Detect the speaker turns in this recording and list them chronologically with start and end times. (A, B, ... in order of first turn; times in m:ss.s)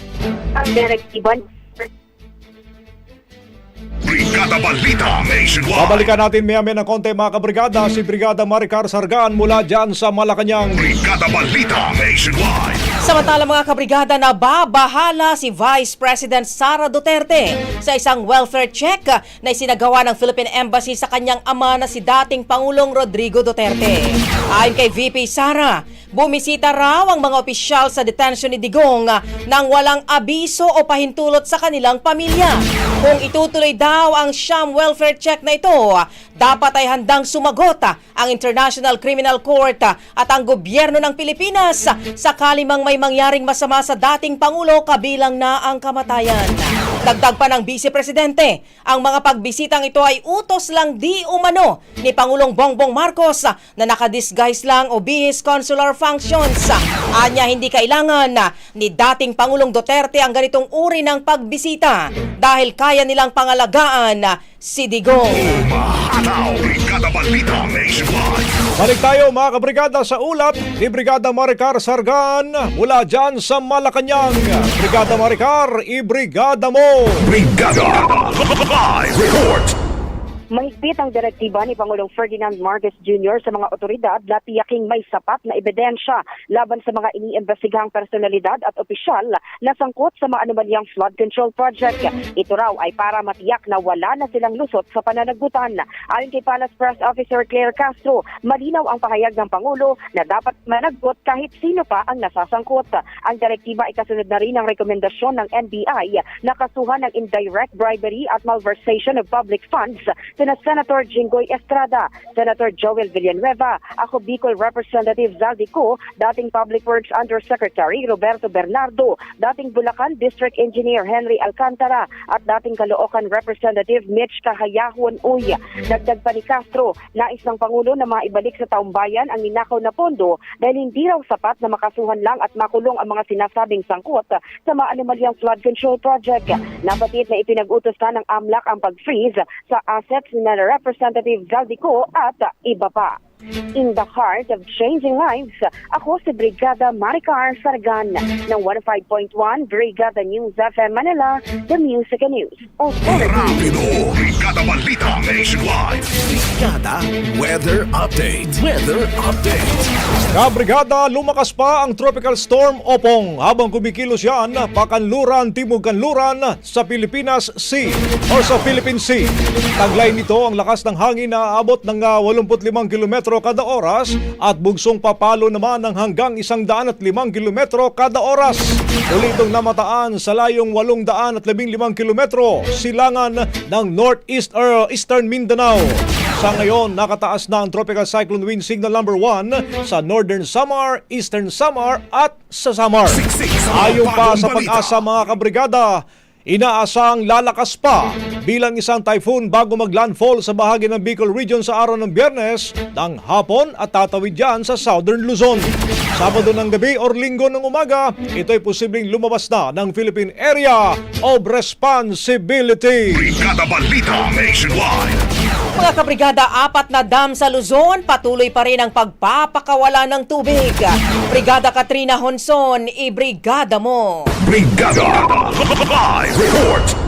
0:00.5-0:01.9 A
0:04.0-0:06.1 B
0:05.8-0:10.8 C
0:10.7-0:12.8 B
0:13.0-1:05.5 D
1:05.3-1:08.5 B
1:08.8-1:17.3 C
1:17.2-1:19.7 B
1:20.5-2:23.2 A
2:23.7-2:33.9 A
2:33.0-2:36.1 B
2:36.3-2:40.0 E
2:40.3-2:49.3 C
2:49.8-3:25.6 C
3:13.1-3:15.0 B
3:26.2-3:33.2 C
3:33.1-3:35.2 B
3:35.8-3:44.3 D
3:44.4-3:46.9 B